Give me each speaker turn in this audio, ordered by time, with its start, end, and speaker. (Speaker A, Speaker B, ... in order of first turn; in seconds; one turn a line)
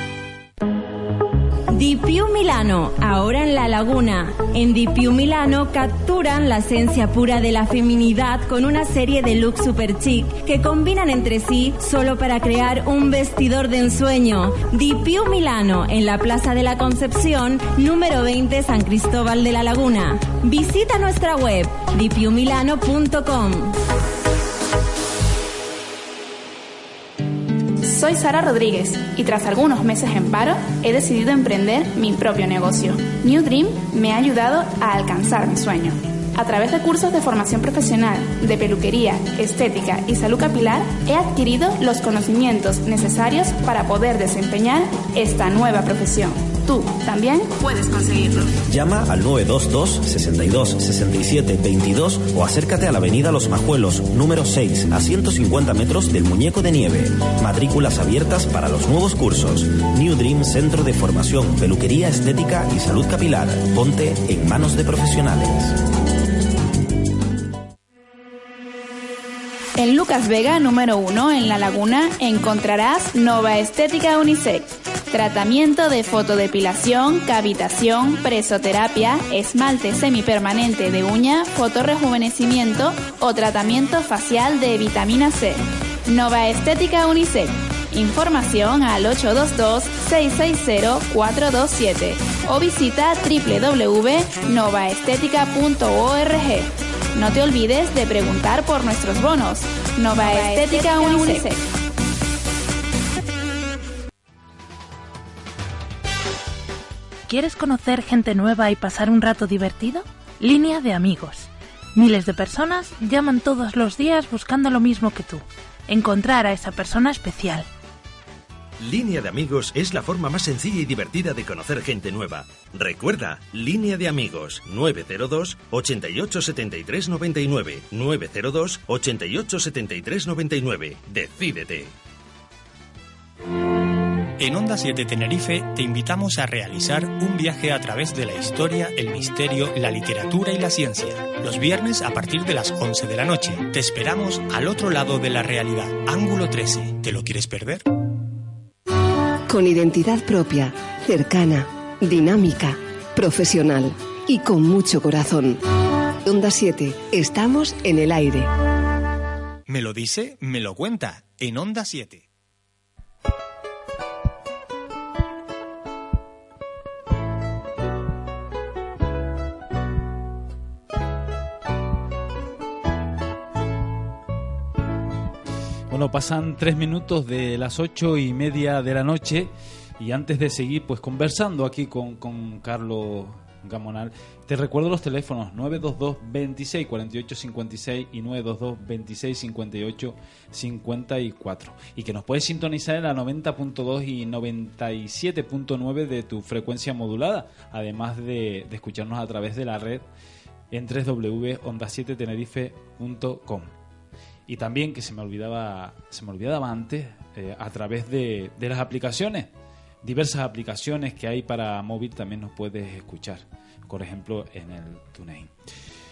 Speaker A: 1.7-23.7
Speaker B: 27.8-48.5
Speaker C: 48.7-65.8
Speaker B: 69.8-101.6
Speaker D: 107.3-117.7
Speaker E: 118.8-131.9
Speaker F: 134.4-147.8
Speaker G: 149.5-155.6
Speaker G: 156.2-158.5
Speaker F: 159.7-162.3
Speaker H: 175.9-200.1
Speaker H: 200.7-203.8
Speaker H: 204.5-209.5
Speaker H: 210.0-215.8